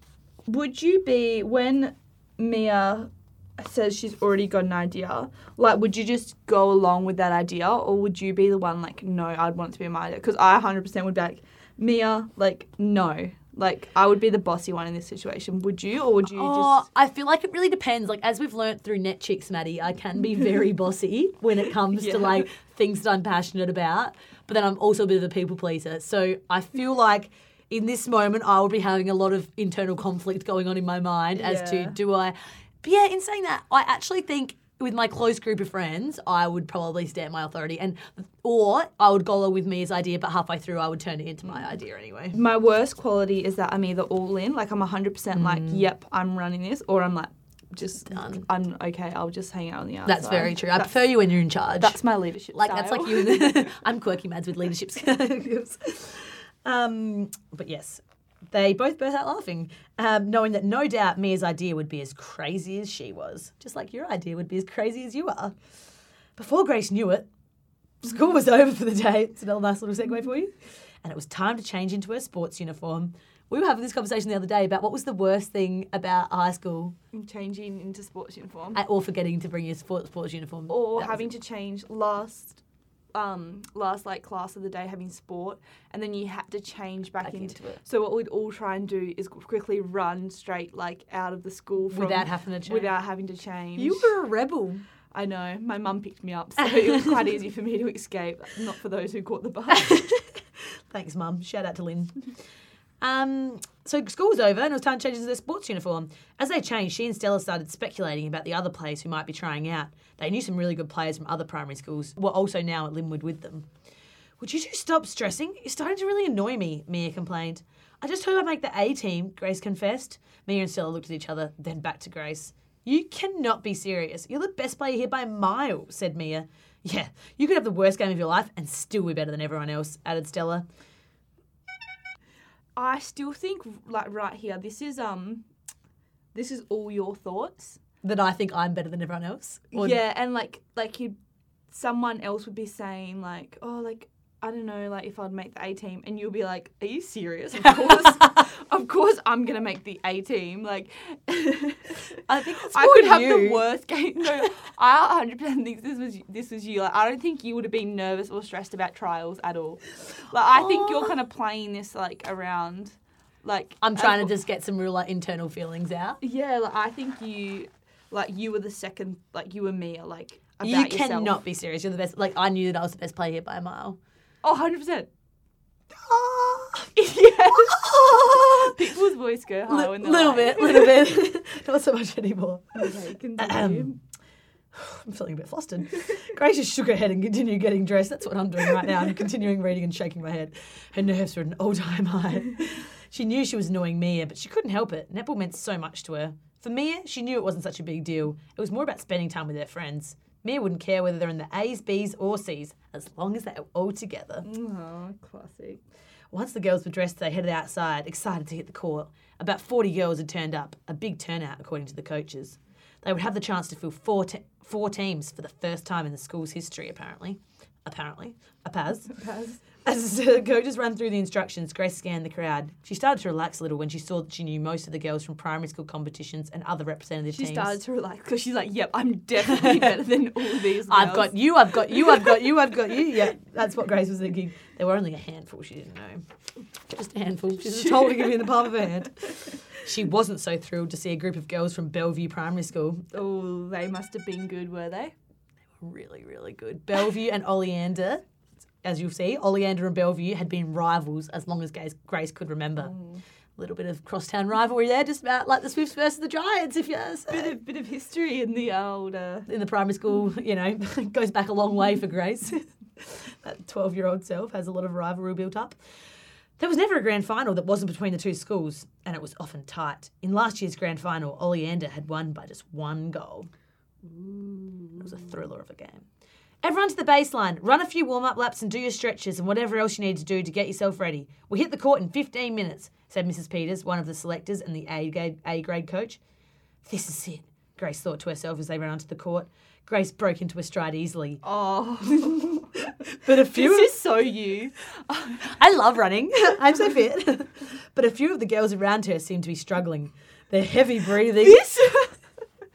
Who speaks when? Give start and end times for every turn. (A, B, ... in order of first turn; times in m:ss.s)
0:00.5-0:16.8 A
0:16.3-0:42.4 B
0:21.9-0:22.5 A
0:31.3-0:32.0 A
0:41.4-0:41.7 A
0:42.3-0:51.0 A
0:45.3-0:45.8 B
0:48.1-0:48.4 B
0:50.0-0:52.0 B
0:51.8-0:53.8 A
0:52.5-1:05.6 B
1:06.4-1:07.3 B
1:08.0-1:16.9 B
1:17.1-1:18.8 A
1:18.7-1:21.3 B
1:20.7-1:22.6 A
1:23.1-1:34.1 A
1:27.2-1:27.8 B
1:31.9-1:32.9 B
1:33.8-1:34.8 B
1:35.1-1:40.2 A
1:39.7-1:40.1 B
1:40.6-1:42.3 B
1:43.0-1:53.7 B
1:54.4-2:10.6 B
2:12.8-2:15.4 A
2:16.3-2:17.8 A
2:18.0-2:20.0 B
2:19.7-2:21.1 A
2:21.7-2:44.3 A
2:27.7-2:28.4 B
2:32.3-2:33.6 B
2:40.5-2:41.1 B
2:43.8-2:46.2 B
2:46.2-2:51.4 A
2:50.6-2:54.0 B
2:54.4-2:55.1 A
2:55.9-2:56.9 B
2:56.9-3:01.0 A
2:57.5-2:58.8 B
2:59.7-3:04.0 B
3:02.7-3:04.0 A
3:04.7-3:24.4 B
3:24.4-3:25.8 A
3:26.3-3:39.1 B
3:39.1-3:39.6 A
3:39.7-3:47.8 B
3:47.3-3:52.6 A
3:49.4-3:50.0 B
3:50.9-3:56.2 B
3:56.9-4:03.0 B
3:57.6-3:58.8 A
4:03.1-4:05.1 A
4:05.8-4:08.2 B
4:08.8-4:12.9 B
4:12.8-4:13.2 A
4:13.6-4:17.5 B
4:17.3-4:19.5 A
4:19.5-4:25.8 B
4:26.6-4:33.5 B
4:34.0-4:36.0 B
4:36.6-4:46.2 B
4:46.8-4:51.4 B
4:51.4-4:55.5 A
4:52.9-4:53.9 B
4:55.4-5:01.6 B
5:01.3-5:02.2 A